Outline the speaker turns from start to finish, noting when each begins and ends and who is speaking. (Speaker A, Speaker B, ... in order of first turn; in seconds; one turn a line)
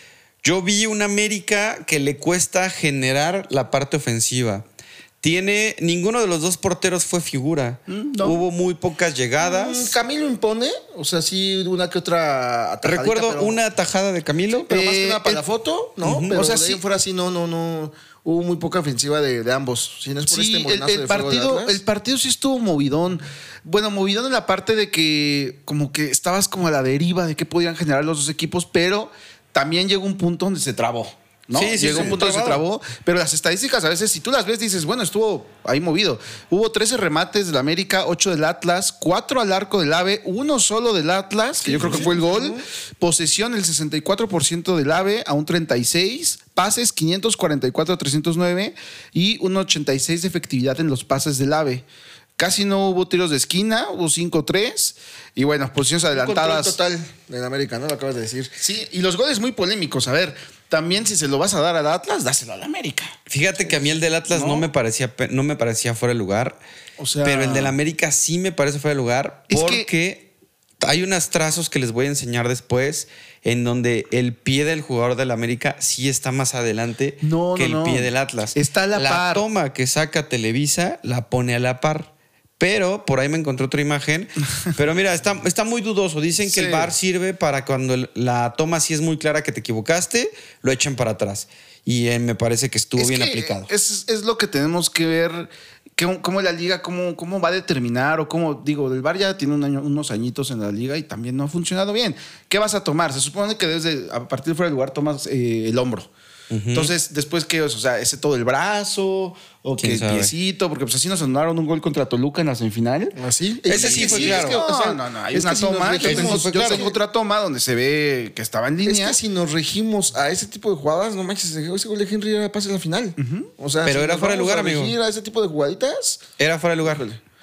Speaker A: 0.4-4.7
Speaker A: 5.2-10.0
Speaker B: 7.9-8.4
Speaker C: 9.4-13.6
Speaker A: 12.8-14.7
Speaker C: 14.6-21.8
Speaker B: 14.7-15.4
Speaker A: 16.0-16.4
Speaker B: 16.3-16.8
Speaker B: 20.3-51.9
Speaker A: 31.5-32.6
Speaker C: 41.6-42.6
Speaker B: 52.4-56.8
Speaker C: 56.1-58.6
Speaker B: 58.6-63.1
Speaker A: 63.3-66.6
Speaker B: 64.3-64.7
Speaker B: 67.0-67.8
Speaker A: 67.2-70.3
Speaker B: 69.5-69.9
Speaker A: 70.8-93.7
Speaker B: 77.2-79.5
Speaker B: 86.5-86.9
Speaker B: 93.0-106.1
Speaker A: 106.5-106.9
Speaker B: 106.7-113.2
Speaker A: 109.8-110.3
Speaker C: 113.2-116.9
Speaker A: 113.7-114.6
Speaker B: 113.7-119.2
Speaker A: 116.0-116.9
Speaker C: 118.8-126.2
Speaker B: 123.2-123.5
Speaker A: 123.8-125.0
Speaker A: 126.4-127.1
Speaker C: 126.8-127.2